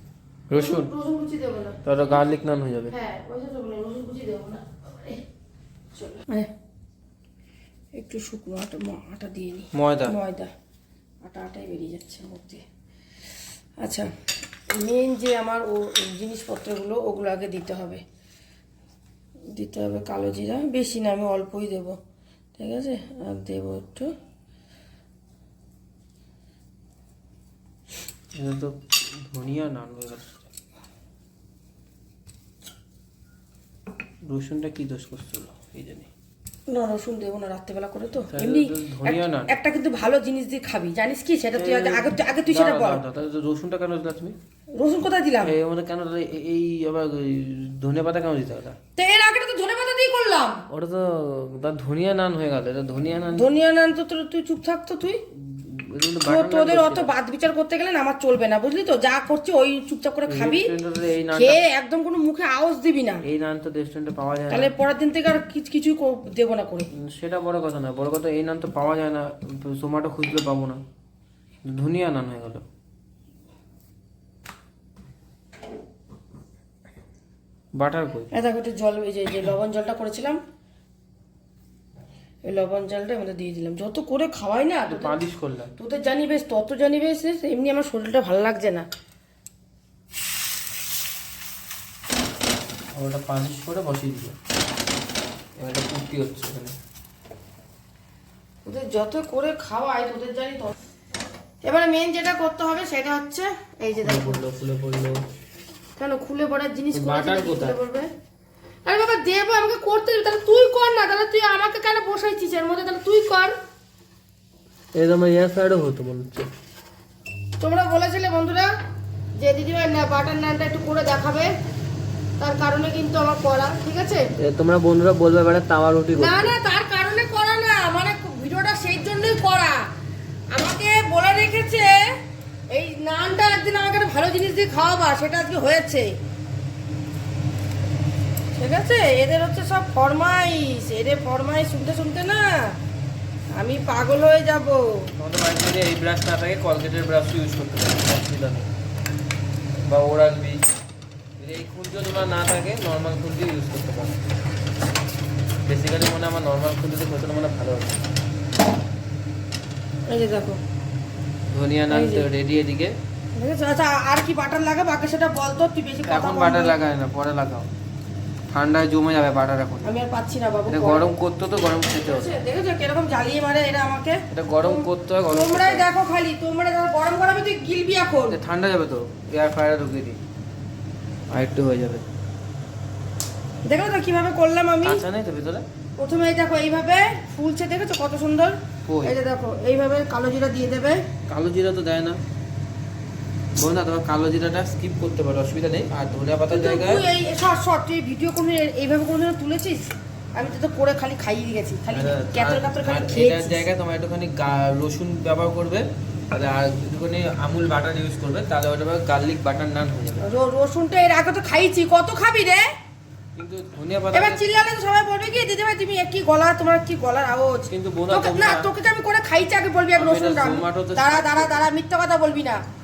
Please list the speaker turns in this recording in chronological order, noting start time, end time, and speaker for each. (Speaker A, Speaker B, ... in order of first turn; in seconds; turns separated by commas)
Speaker A: 0.5-0.9, Speaker B: 0.5-1.8, Speaker A: 1.8-2.9, Speaker B: 2.9-5.2, Speaker B: 5.9-6.5, Speaker B: 7.9-10.5, Speaker A: 9.7-10.2, Speaker B: 11.2-12.6, Speaker B: 13.8-14.1, Speaker B: 14.7-18.0, Speaker B: 19.5-21.9, Speaker B: 22.6-24.1, Speaker A: 28.4-30.4, Speaker A: 34.3-36.1, Speaker B: 36.7-43.0, Speaker A: 38.3-39.5, Speaker A: 41.5-44.4, Speaker B: 44.8-45.5, Speaker A: 45.4-48.8, Speaker B: 49.0-50.6, Speaker A: 50.7-53.5, Speaker B: 53.3-55.2, Speaker A: 55.4-57.1, Speaker B: 56.2-60.7, Speaker A: 60.3-61.6, Speaker B: 61.3-63.2, Speaker A: 63.2-64.7, Speaker B: 64.5-66.9, Speaker A: 66.9-70.8, Speaker A: 71.6-72.6, Speaker A: 77.7-78.3, Speaker B: 78.3-80.4, Speaker B: 82.4-85.1, Speaker A: 84.9-85.7, Speaker B: 85.8-88.8, Speaker A: 92.9-94.3, Speaker A: 95.6-96.7, Speaker B: 98.6-100.7, Speaker B: 101.6-104.4, Speaker A: 104.0-105.2, Speaker B: 106.0-108.1, Speaker A: 106.9-107.8, Speaker B: 108.8-113.5, Speaker A: 114.9-116.5, Speaker B: 117.6-118.7, Speaker B: 119.4-121.5, Speaker B: 122.4-124.2, Speaker A: 124.4-126.5, Speaker B: 126.1-129.8, Speaker B: 130.5-132.0, Speaker B: 132.7-136.1, Speaker B: 138.5-142.7, Speaker B: 143.6-145.1, Speaker A: 145.2-148.7, Speaker A: 149.8-150.6, Speaker A: 151.4-154.2, Speaker A: 155.7-158.0, Speaker B: 160.1-160.6, Speaker A: 161.5-162.9, Speaker B: 161.9-162.3, Speaker B: 163.3-166.8, Speaker A: 166.1-167.7, Speaker A: 168.5-169.9, Speaker B: 169.8-171.1, Speaker A: 170.7-172.4, Speaker B: 172.0-178.4, Speaker A: 174.3-175.9, Speaker A: 178.3-180.2, Speaker A: 181.3-182.0, Speaker B: 183.7-185.0, Speaker A: 184.8-185.6, Speaker B: 186.0-191.0, Speaker A: 188.9-189.1, Speaker A: 191.3-192.2, Speaker A: 193.6-197.1, Speaker B: 196.5-203.7, Speaker A: 201.9-210.2, Speaker B: 210.2-212.7, Speaker A: 213.3-214.4, Speaker B: 214.1-222.6, Speaker A: 217.7-218.7, Speaker A: 219.9-221.5